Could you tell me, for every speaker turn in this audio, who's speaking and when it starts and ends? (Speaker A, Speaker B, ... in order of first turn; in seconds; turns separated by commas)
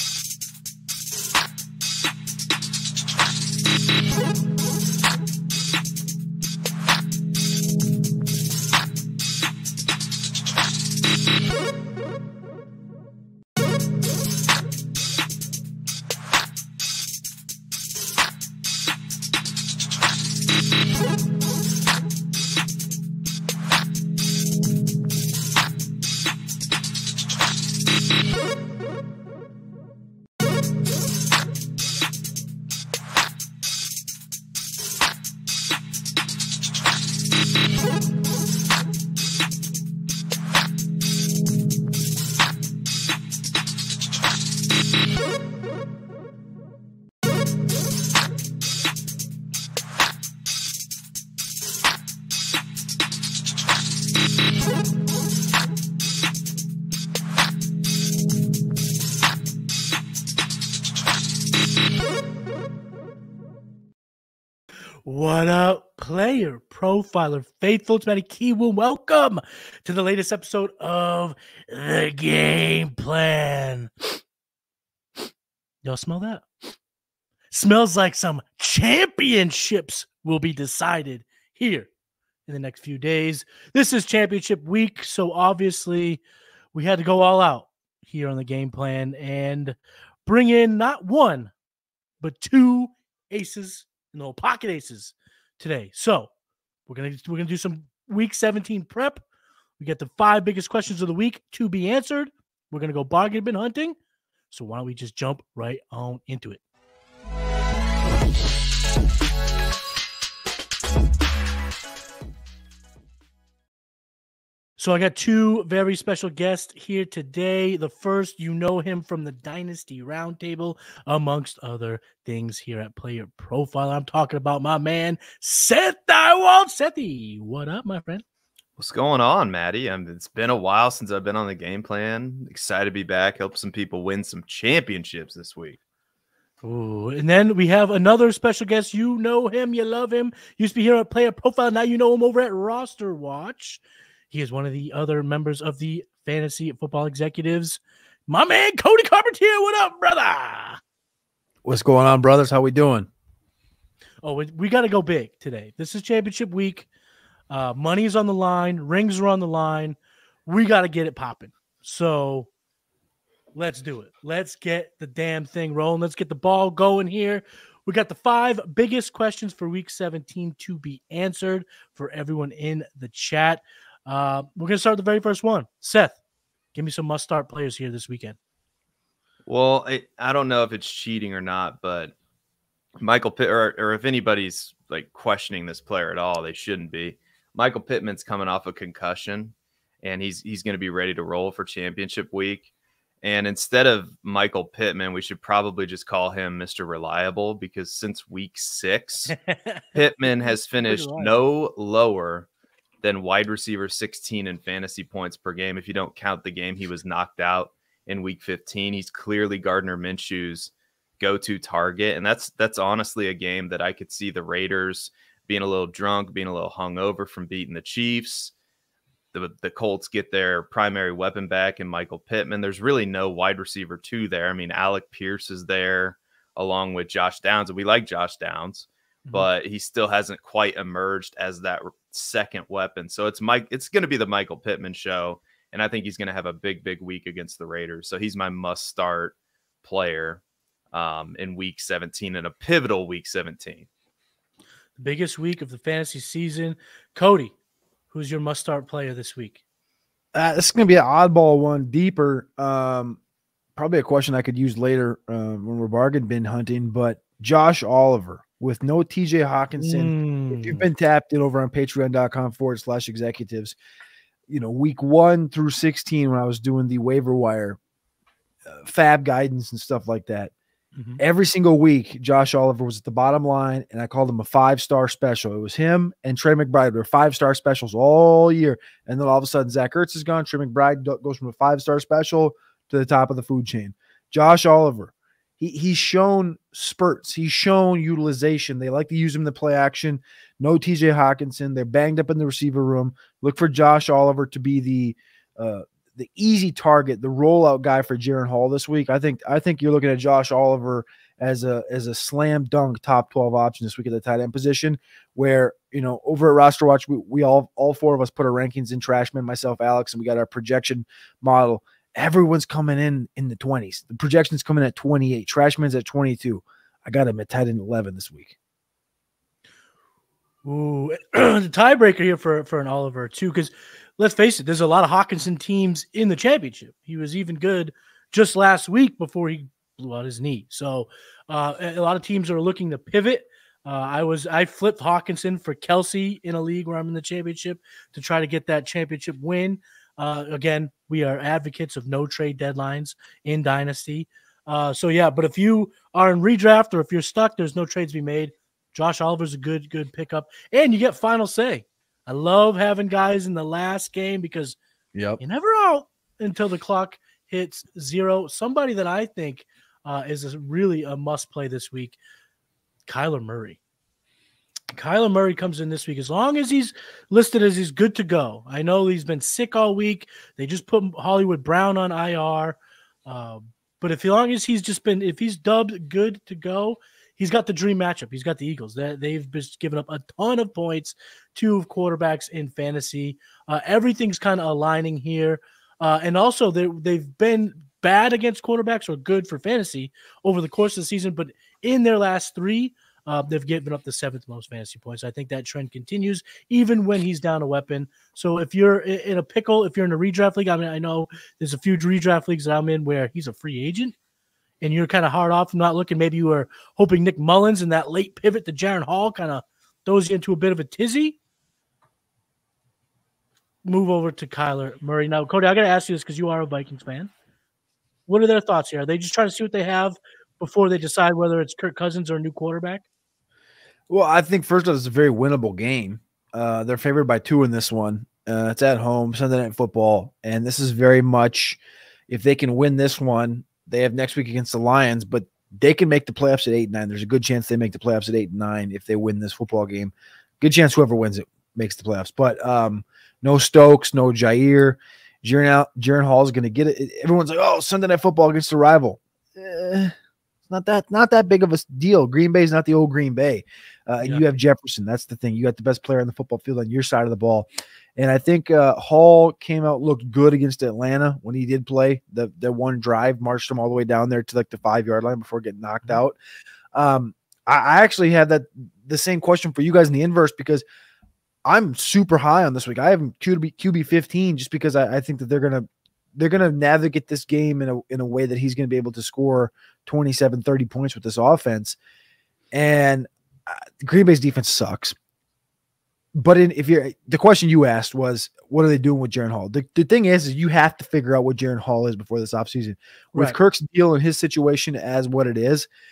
Speaker A: 65.0-74.2, Speaker A: 75.8-76.5, Speaker A: 77.5-81.9, Speaker A: 82.5-86.2, Speaker A: 86.7-91.5, Speaker A: 92.2-96.3, Speaker A: 96.9-99.2, Speaker A: 99.8-104.0, Speaker A: 104.5-106.6, Speaker A: 114.8-128.2, Speaker B: 128.8-135.8, Speaker A: 136.6-150.8, Speaker C: 151.7-153.1, Speaker A: 154.2-156.9, Speaker A: 157.5-162.5, Speaker A: 163.6-176.2, Speaker A: 176.8-178.4, Speaker B: 179.5-182.1, Speaker B: 183.0-192.7, Speaker B: 193.2-199.3, Speaker A: 199.3-201.4, Speaker B: 200.0-202.5, Speaker B: 203.0-218.5, Speaker B: 219.3-240.4, Speaker B: 240.9-243.9, Speaker A: 245.0-247.5, Speaker A: 248.1-249.6, Speaker C: 250.3-253.2, Speaker C: 253.8-263.8, Speaker A: 259.8-260.9, Speaker C: 264.5-267.8, Speaker C: 268.6-270.5, Speaker C: 271.2-318.6, Speaker A: 320.6-354.8, Speaker C: 355.1-355.4, Speaker A: 355.4-362.2, Speaker A: 363.1-363.8, Speaker A: 364.9-404.1, Speaker A: 404.8-411.4, Speaker A: 413.9-417.3, Speaker A: 418.3-423.1, Speaker C: 424.1-450.1, Speaker C: 450.7-466.4, Speaker A: 454.2-454.5, Speaker C: 466.9-470.8, Speaker C: 471.6-482.0, Speaker C: 482.7-485.1, Speaker C: 486.4-495.9